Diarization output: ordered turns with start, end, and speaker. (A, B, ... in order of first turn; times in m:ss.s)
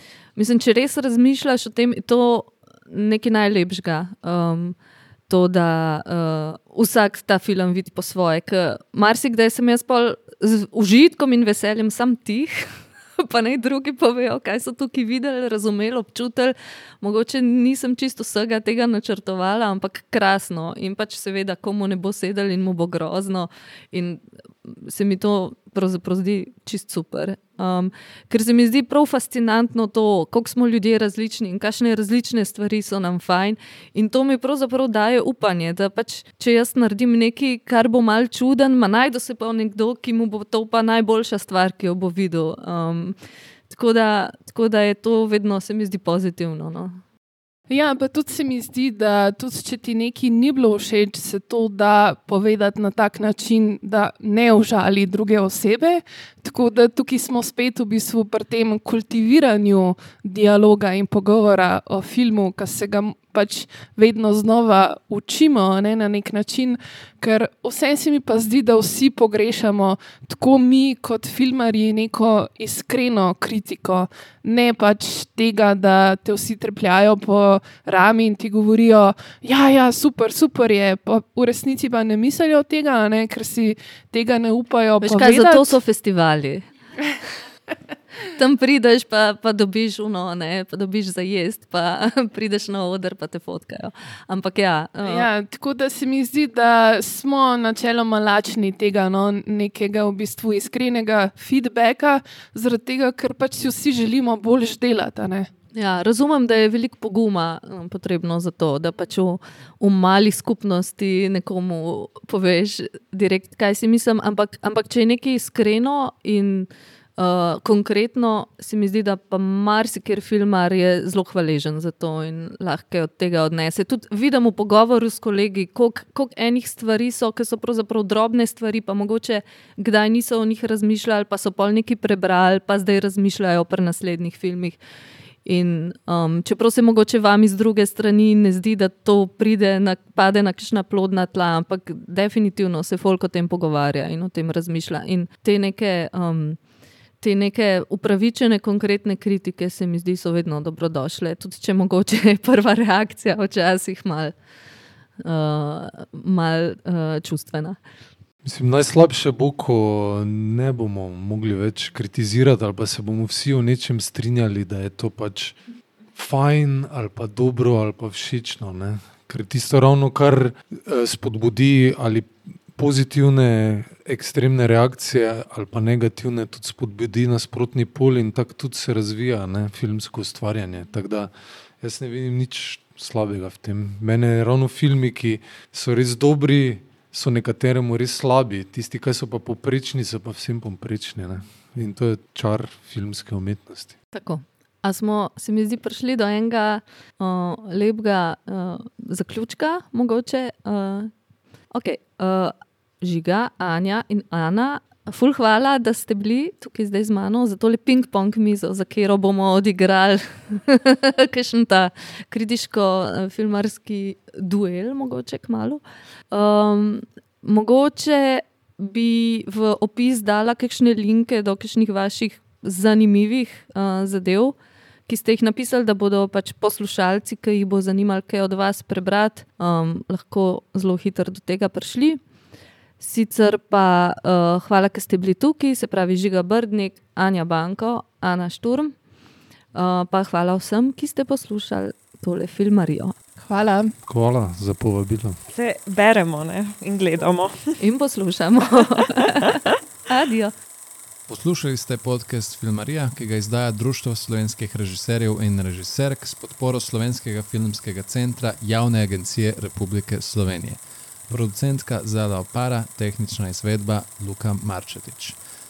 0:00.4-0:04.8 A
0:05.3-0:43.2 A
0:43.7-0:47.0 A
0:47.7-1:25.7 B
1:25.0-1:26.6 A
1:28.3-1:35.3 A
1:35.0-1:45.5 B
1:45.7-2:14.8 A
2:15.4-2:26.6 A
2:27.2-2:34.3 A
2:35.2-2:37.8 A
2:38.4-2:45.6 C
2:46.1-3:13.9 C
3:14.1-3:21.1 A
3:21.7-3:35.8 A
3:36.3-3:44.5 A
3:45.1-3:52.2 A
3:53.0-3:58.9 A
3:59.7-4:03.1 A
4:03.4-4:03.9 B
4:04.0-4:05.4 C
4:05.5-4:07.7 D
4:07.8-4:10.5 A
4:11.3-4:25.4 E